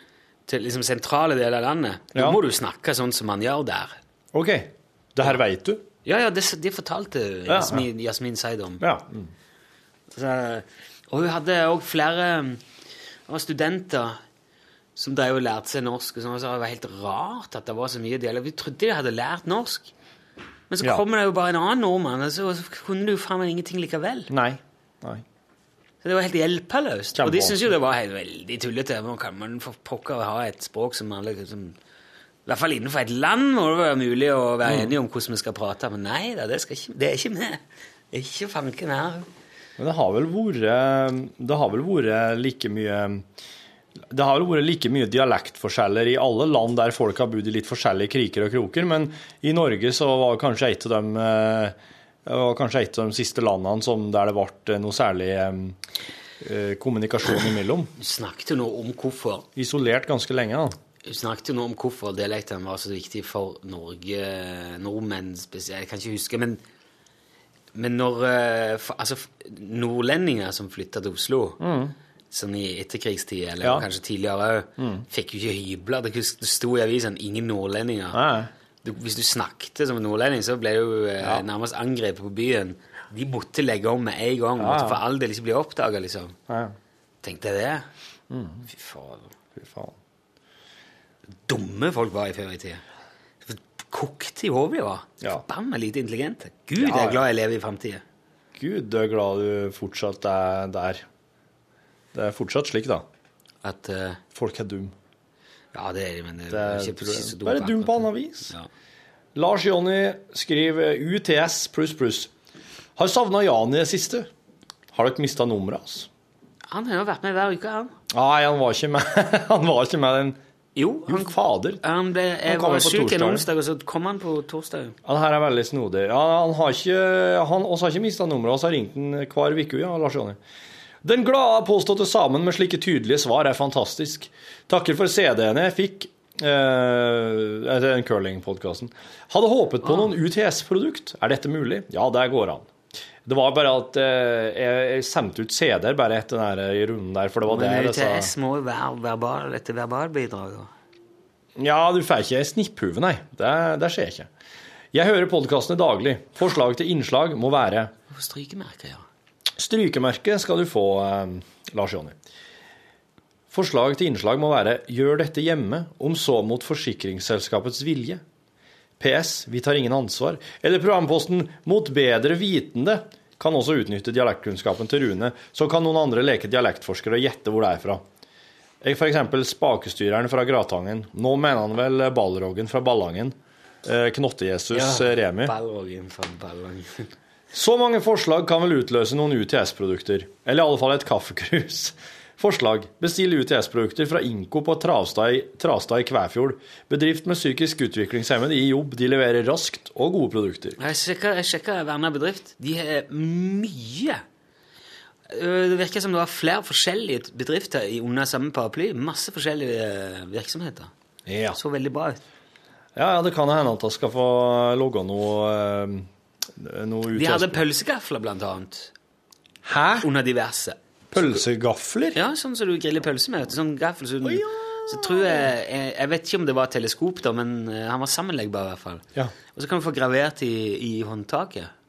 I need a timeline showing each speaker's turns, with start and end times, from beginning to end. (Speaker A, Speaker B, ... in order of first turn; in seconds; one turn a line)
Speaker A: 0.5-4.0
Speaker B: 2.1-2.4
Speaker B: 4.3-5.8
Speaker A: 6.0-8.8
Speaker B: 7.5-7.9
Speaker B: 8.8-9.3
Speaker A: 10.1-12.6
Speaker A: 13.3-14.2
Speaker A: 15.0-19.9
Speaker A: 20.7-24.3
Speaker B: 24.3-25.2
Speaker A: 26.0-31.8
Speaker B: 27.2-27.7
Speaker A: 32.5-39.3
Speaker B: 34.6-34.9
Speaker B: 39.8-43.2
Speaker B: 44.1-55.8
Speaker B: 56.4-57.9
Speaker A: 58.0-59.5
Speaker B: 59.5-60.8
Speaker A: 61.1-66.6
Speaker A: 67.7-71.6
Speaker B: 71.6-72.0
Speaker A: 72.3-78.2
Speaker B: 74.8-75.1
Speaker B: 78.1-78.5
Speaker A: 78.8-86.4
Speaker B: 84.6-85.0
Speaker B: 86.5-86.8
Speaker A: 87.2-87.9
Speaker B: 88.3-88.7
Speaker A: 88.7-89.3
Speaker B: 89.5-90.0
Speaker A: 91.5-92.8
Speaker A: 93.5-98.0
Speaker B: 96.8-97.2
Speaker B: 98.5-101.0
Speaker B: 102.1-103.1
Speaker A: 103.6-104.2
Speaker B: 104.3-105.0
Speaker A: 105.7-108.7
Speaker B: 106.5-108.5
Speaker B: 109.3-112.3
Speaker B: 113.0-114.3
Speaker B: 114.9-116.1
Speaker A: 116.7-118.0
Speaker B: 118.1-120.4
Speaker A: 120.8-125.0
Speaker B: 121.1-121.8
Speaker B: 122.5-123.5
Speaker B: 125.0-130.4
Speaker B: 131.0-142.7
Speaker A: 139.8-140.1
Speaker B: 143.2-148.3
Speaker A: 147.5-150.7
Speaker B: 151.6-154.3
Speaker B: 154.9-157.9
Speaker A: 158.1-159.1
Speaker B: 159.6-162.2
Speaker B: 163.5-168.2
Speaker B: 169.0-178.0
Speaker B: 178.8-185.5
Speaker A: 184.7-187.1
Speaker B: 187.5-200.8
Speaker A: 200.8-204.2
Speaker A: 205.3-210.9
Speaker B: 211.3-211.6
Speaker A: 211.5-212.2
Speaker B: 213.0-217.6
Speaker A: 217.2-218.9
Speaker B: 219.7-220.1
Speaker A: 220.0-221.4
Speaker B: 221.1-222.2
Speaker A: 222.1-231.7
Speaker B: 224.2-225.5